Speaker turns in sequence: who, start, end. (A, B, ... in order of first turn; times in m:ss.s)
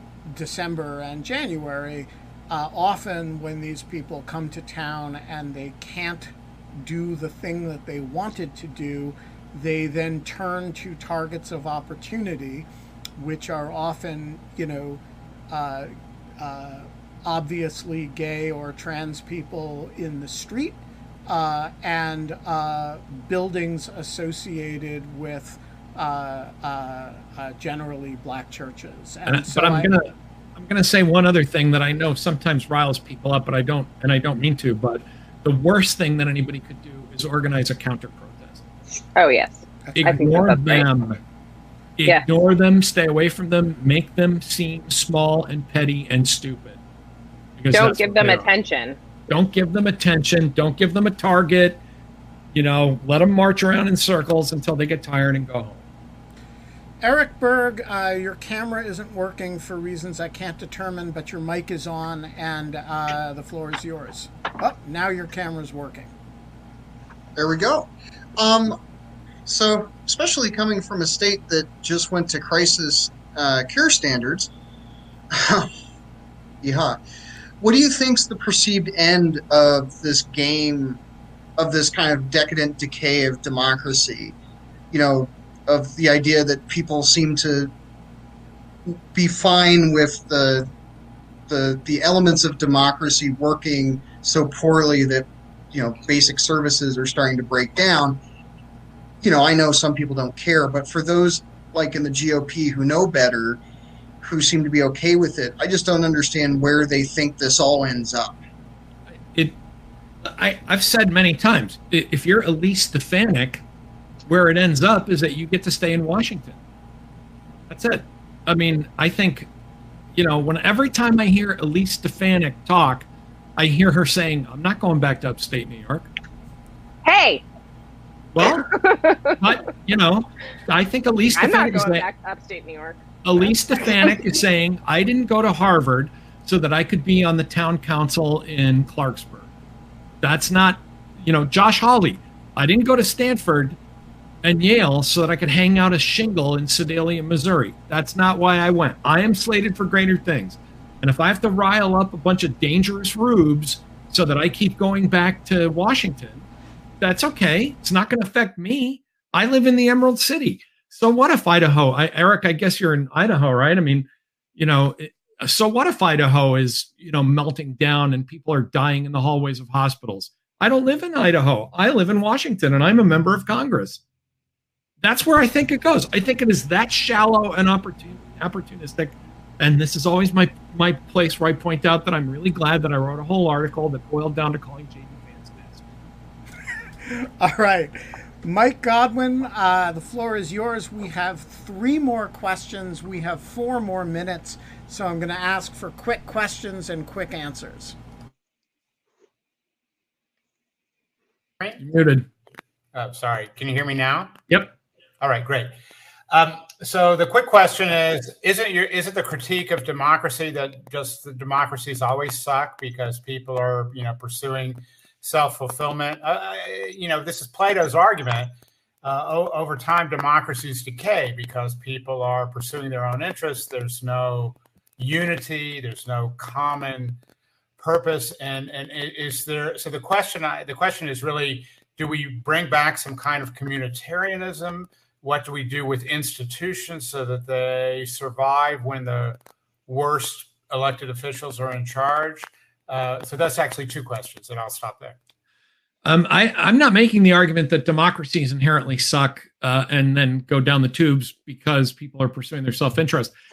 0:00.2-0:29.9 A
0:29.3-0:38.6 B
0:39.2-0:40.8 C
0:39.9-0:41.2 B
0:42.0-0:46.8 B
0:47.6-0:48.4 B
0:47.7-0:49.0 C
0:49.3-0:51.8 B
0:52.5-0:55.8 B
0:57.0-1:06.1 A
1:07.4-1:08.8 D
1:09.4-1:14.5 D
1:15.3-1:15.7 D
1:16.6-1:17.0 D
1:17.6-1:21.0 D
1:21.6-1:24.3 D
1:24.9-1:27.7 D
1:28.9-1:30.7 D
1:31.5-1:38.2 D
1:39.2-1:43.6 D
1:44.2-1:48.4 D
1:49.2-1:49.6 B
1:50.2-1:53.6 B
1:54.2-1:56.6 B
1:57.7-1:59.5 B
2:00.1-2:06.1 B
2:07.0-2:07.4 C
2:08.3-2:08.7 B
2:08.7-2:09.4 C
2:09.4-2:12.0 B
2:11.4-2:13.1 C
2:13.2-2:19.5 B
2:13.9-2:14.2 C
2:20.2-2:23.8 B
2:24.4-2:36.5 B
2:37.0-2:54.0 B
2:55.0-3:05.8 B
3:07.0-3:18.0 A
3:21.8-3:22.3 B
3:22.9-3:24.4 E
3:25.2-3:25.7 E
3:26.3-3:38.5 E
3:39.0-3:47.2 E
3:47.8-4:05.2 E
4:06.0-4:13.3 B